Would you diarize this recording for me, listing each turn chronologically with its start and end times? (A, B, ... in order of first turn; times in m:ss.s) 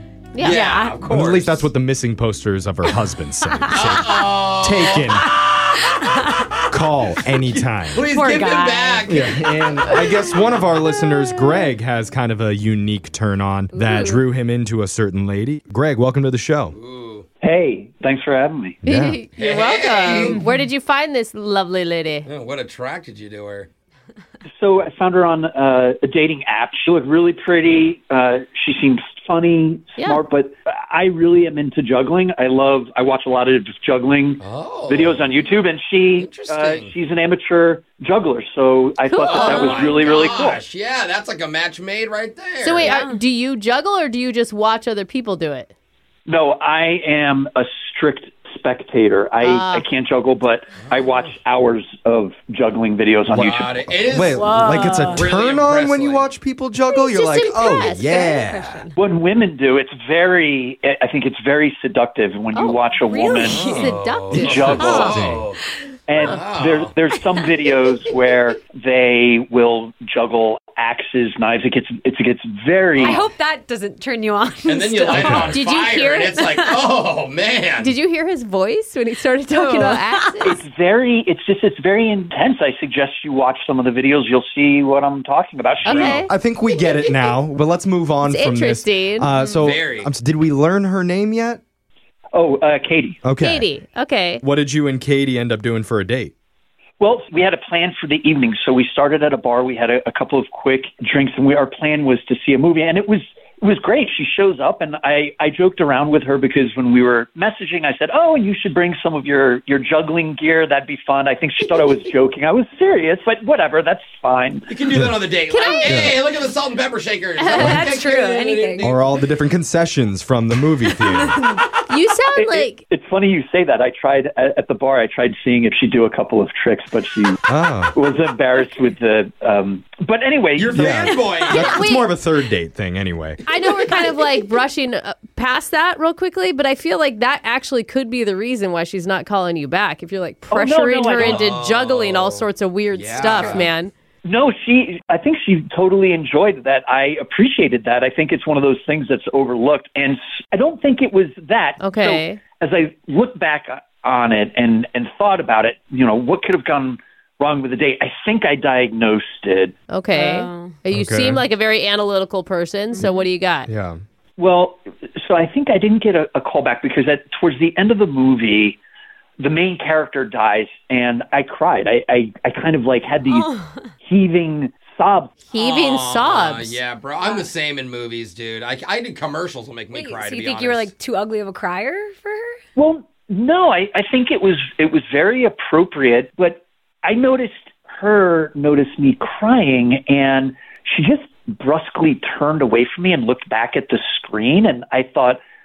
0:00.3-0:00.6 A
0:00.4-0:01.7 B
0:00.4-0:00.9 C
0:01.1-0:05.3 D
0:03.7-0:05.8 B
0:05.9-0:06.4 C
0:06.7-0:08.0 D
0:07.5-0:10.0 B
0:08.1-0:09.1 C
0:09.0-0:16.8 D
0:13.7-0:14.2 C
0:16.7-0:17.2 B
0:17.4-0:18.8 E
0:18.8-0:22.3 A
0:18.8-0:19.2 D
0:19.3-0:20.4 B
0:22.2-0:23.7 B
0:24.5-0:40.6 E
0:34.4-0:35.4 B
0:36.2-0:36.9 B
0:39.1-0:40.1 A
0:39.2-0:42.9 B
0:39.4-0:39.9 C
0:42.6-0:45.7 A
0:42.8-0:43.2 C
0:46.2-0:53.9 E
0:49.4-0:49.8 A
0:50.9-0:51.3 B
0:53.3-0:56.3 B
0:53.3-0:58.8 D
0:54.3-0:55.2 C
0:54.8-0:55.1 A
0:56.8-0:58.4 A
0:57.8-0:59.0 C
0:59.0-1:03.7 E
1:02.5-1:05.2 A
1:03.0-1:04.0 C
1:03.5-1:05.6 B
1:04.3-1:05.1 E
1:04.6-1:05.4 D
1:04.8-1:05.2 C
1:06.1-1:13.2 E
1:06.2-1:07.0 B
1:12.9-1:13.2 B
1:13.0-1:15.5 C
1:14.6-1:18.0 B
1:15.1-1:15.6 D
1:15.3-1:16.4 A
1:16.4-1:16.8 C
1:17.8-1:20.6 A
1:19.5-1:20.4 C
1:20.4-1:26.3 E
1:25.8-1:26.3 B
1:25.8-1:26.3 A
1:26.2-1:31.6 D
1:28.2-1:29.3 A
1:29.6-1:30.1 B
1:32.3-1:33.2 E
1:33.2-1:33.7 D
1:33.4-1:34.4 A
1:34.4-1:36.3 D
1:37.0-1:54.7 E
1:54.7-1:59.0 B
1:55.4-1:56.2 A
1:55.8-1:56.2 D
1:57.4-1:57.8 A
1:57.5-1:59.0 C
1:58.8-2:01.4 D
2:01.0-2:01.7 C
2:01.9-2:02.8 A
2:02.3-2:07.4 E
2:07.5-2:07.9 D
2:07.9-2:11.2 E
2:10.6-2:11.8 B
2:10.7-2:13.4 D
2:11.2-2:11.6 C
2:11.6-2:12.1 A
2:13.4-2:23.9 A
2:13.6-2:14.0 B
2:20.5-2:21.5 E
2:21.1-2:23.7 B
2:24.2-2:39.7 E
2:31.8-2:32.4 A
2:39.9-2:43.7 A
2:40.1-2:40.8 C
2:40.9-2:41.4 D
2:43.7-2:44.0 D
2:44.4-2:48.8 E
2:49.4-2:53.5 E
2:53.2-2:53.7 C
2:54.0-2:55.3 E
2:55.5-2:56.8 A
2:55.5-3:00.9 B
2:59.9-3:02.6 C
3:02.8-3:15.4 E